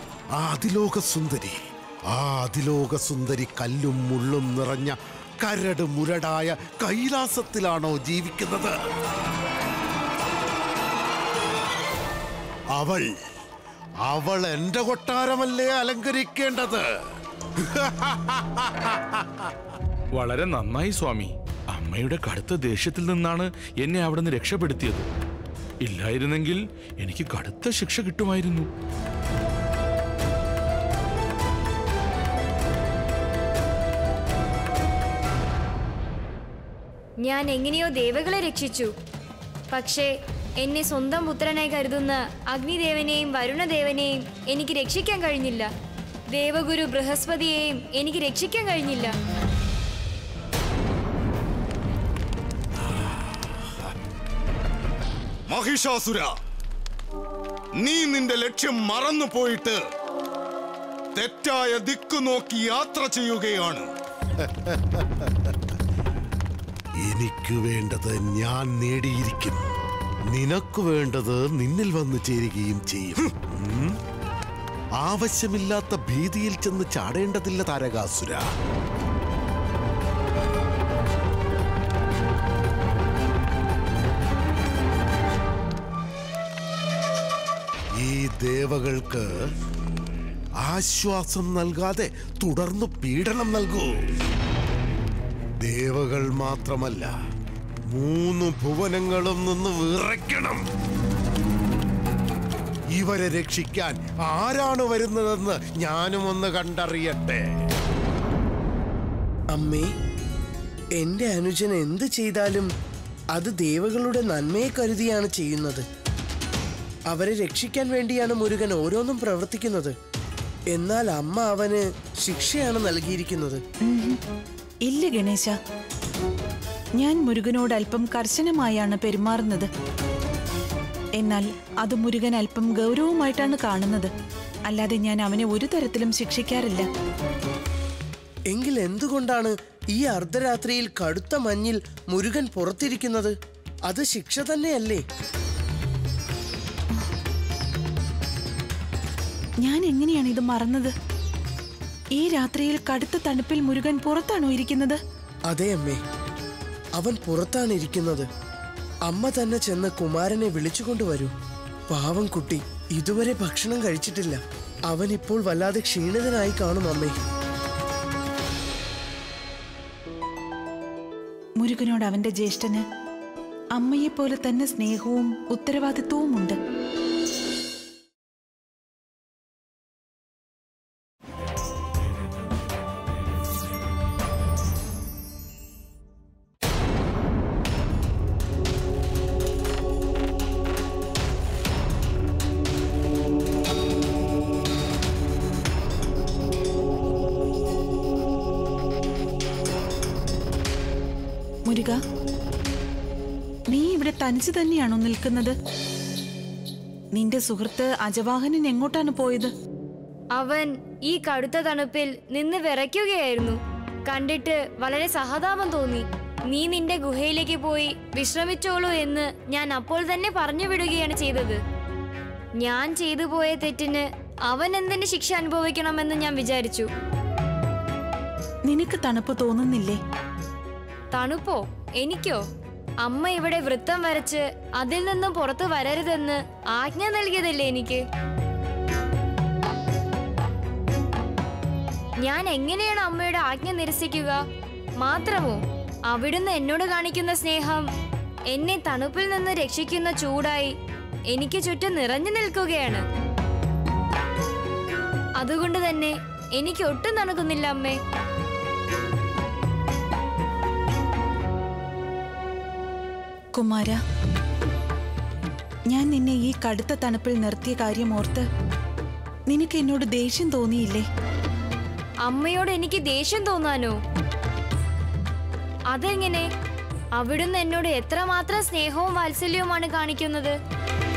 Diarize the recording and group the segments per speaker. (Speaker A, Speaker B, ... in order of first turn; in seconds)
Speaker A: 0.3-1.6, 2.1-8.8, 12.7-13.1, 14.1-16.8, 17.6-19.5, 64.4-65.5, 67.0-69.6, 70.3-74.0, 75.0-78.5, 88.0-89.3, 90.6-93.9, 95.6-97.1, 97.9-100.6, 103.0-107.4
Speaker B: 20.1-25.1, 25.8-28.7
Speaker C: 37.2-38.9, 39.7-40.1, 40.6-45.7, 46.3-49.1, 210.4-213.5, 214.1-216.0, 216.5-221.6, 222.7-226.8, 231.1-232.4, 233.1-238.0, 242.2-244.4, 245.0-247.8, 248.5-250.7, 251.3-253.0, 255.4-258.0, 272.3-273.9, 275.9-276.5, 277.2-280.6
Speaker D: 55.5-56.3, 57.8-59.8, 61.1-63.9
Speaker E: 109.5-109.9, 111.0-112.7, 113.3-115.8, 117.1-119.9, 120.7-123.6, 138.5-143.3, 143.9-145.0, 155.5-156.0, 157.0-158.2, 159.1-161.3, 161.9-167.2
Speaker F: 123.9-124.2, 124.9-125.5, 127.0-129.7, 131.2-134.1, 134.7-136.8, 149.6-150.9, 152.2-155.0, 171.6-172.8, 173.8-176.6, 201.7-201.9, 203.7-205.5, 207.2-209.5, 228.7-230.0, 263.6-264.0, 265.9-268.4, 269.5-271.0